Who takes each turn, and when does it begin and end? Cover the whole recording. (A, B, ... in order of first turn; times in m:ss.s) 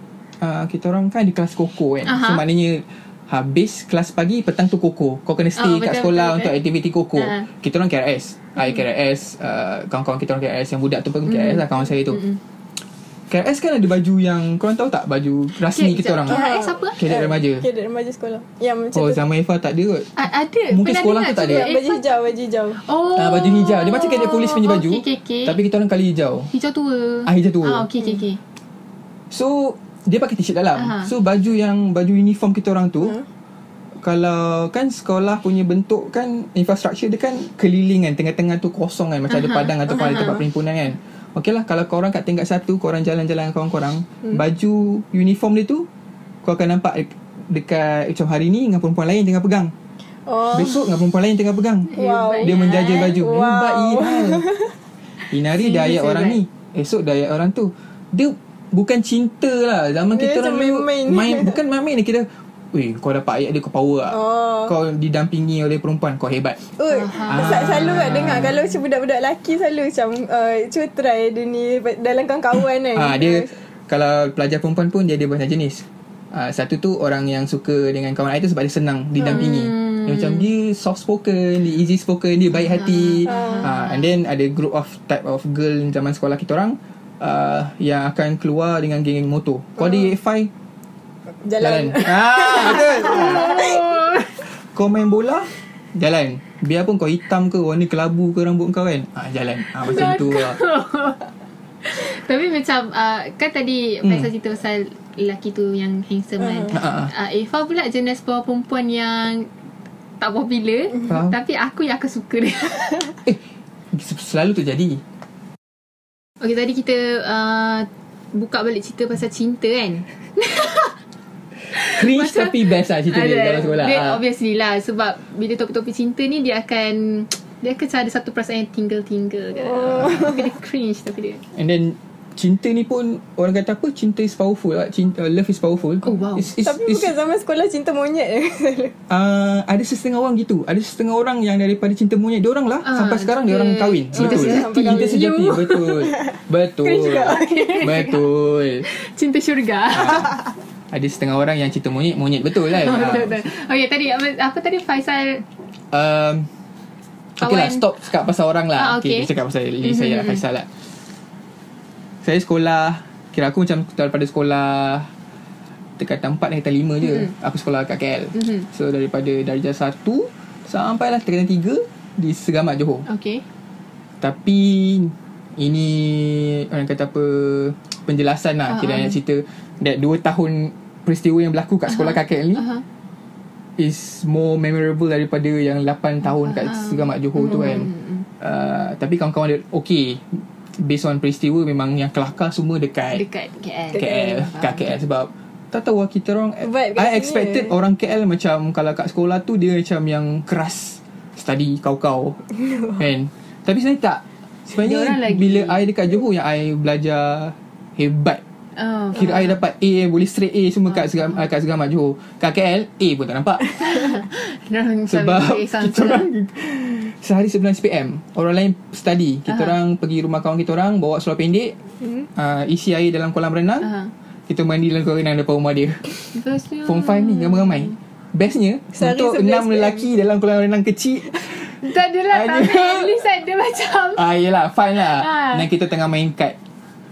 0:00.4-0:12.2 A
0:02.0-0:02.4 B
0:05.6-0:06.6 B
0:07.2-0:07.5 B
0:11.3-0:12.4 B
0:13.3-0:16.4 A
0:15.6-0:17.0 B
0:16.2-0:19.2 C
0:17.0-0:17.7 A
0:18.9-0:20.1 A
0:20.2-0:22.1 B
0:20.7-0:21.7 A
0:21.3-0:22.8 C
0:22.8-0:25.6 B
0:23.1-0:26.5 A
0:26.5-0:28.4 B
0:27.2-0:27.9 A
0:29.3-0:33.2 A
0:30.8-0:31.1 B
0:34.0-0:45.9 A
0:39.3-0:40.4 B
0:46.4-0:49.7 A
0:50.3-0:50.8 C
0:50.5-0:54.4 A
0:51.9-0:53.2 B
0:51.9-0:54.7 C
0:55.3-1:06.6 A
0:55.5-0:56.4 B
1:00.1-1:01.6 C
1:04.1-1:04.7 C
1:06.7-1:13.5 C
1:06.9-1:08.3 B
1:07.3-1:08.6 A
1:12.9-1:30.5 A
1:19.2-1:20.5 B
1:22.8-1:24.0 B
1:23.3-1:23.7 C
1:31.4-1:33.8 C
1:31.6-1:33.7 A
1:32.6-1:34.3 B
1:34.7-1:40.6 A
1:39.8-1:41.2 B
1:41.8-1:49.5 B
1:46.7-1:47.1 A
1:50.2-1:53.1 B
1:51.1-1:51.3 A
1:53.9-1:55.0 A
1:56.4-2:00.9 B
2:01.7-2:11.4 B
2:01.8-2:04.2 A
2:09.6-2:10.4 C
2:11.5-2:17.1 A
2:16.0-2:16.5 B
2:16.6-2:19.0 C
2:19.1-2:28.8 A
2:22.8-2:26.0 B
2:24.1-2:26.2 C
2:26.8-2:28.2 B
2:26.9-2:27.9 C
2:28.8-2:30.4 B
2:29.9-2:30.3 A
2:30.9-2:33.4 A
2:32.6-2:35.4 B
2:35.9-2:36.5 A
2:37.4-2:40.7 A
2:37.4-2:37.8 B
2:38.8-2:39.3 B
2:39.8-2:40.4 B
2:42.2-2:45.1 A
2:46.0-2:53.0 A
2:48.3-2:48.6 B
2:53.0-2:53.4 B
2:54.2-3:02.6 A
2:58.7-2:59.2 B
3:01.9-3:02.8 B
3:03.8-3:13.2 A
3:06.4-3:08.2 B
3:13.1-3:15.0 B
3:13.9-3:22.4 A
3:16.6-3:17.7 C
3:22.6-3:23.0 C
3:23.0-3:28.4 A
3:24.8-3:25.8 B
3:28.8-3:29.6 B
3:29.1-3:34.1 A
3:30.9-3:31.3 B
3:33.8-3:36.3 B
3:35.1-3:41.8 A
3:39.5-3:39.7 B
3:42.0-3:42.3 C
3:42.3-3:43.9 A
3:43.8-3:44.1 B
3:44.5-3:46.0 A
3:46.3-3:48.0 B
3:46.8-3:53.2 A
3:48.9-3:50.1 C
3:51.8-3:54.2 B
3:54.1-3:56.6 A
3:55.0-3:55.7 B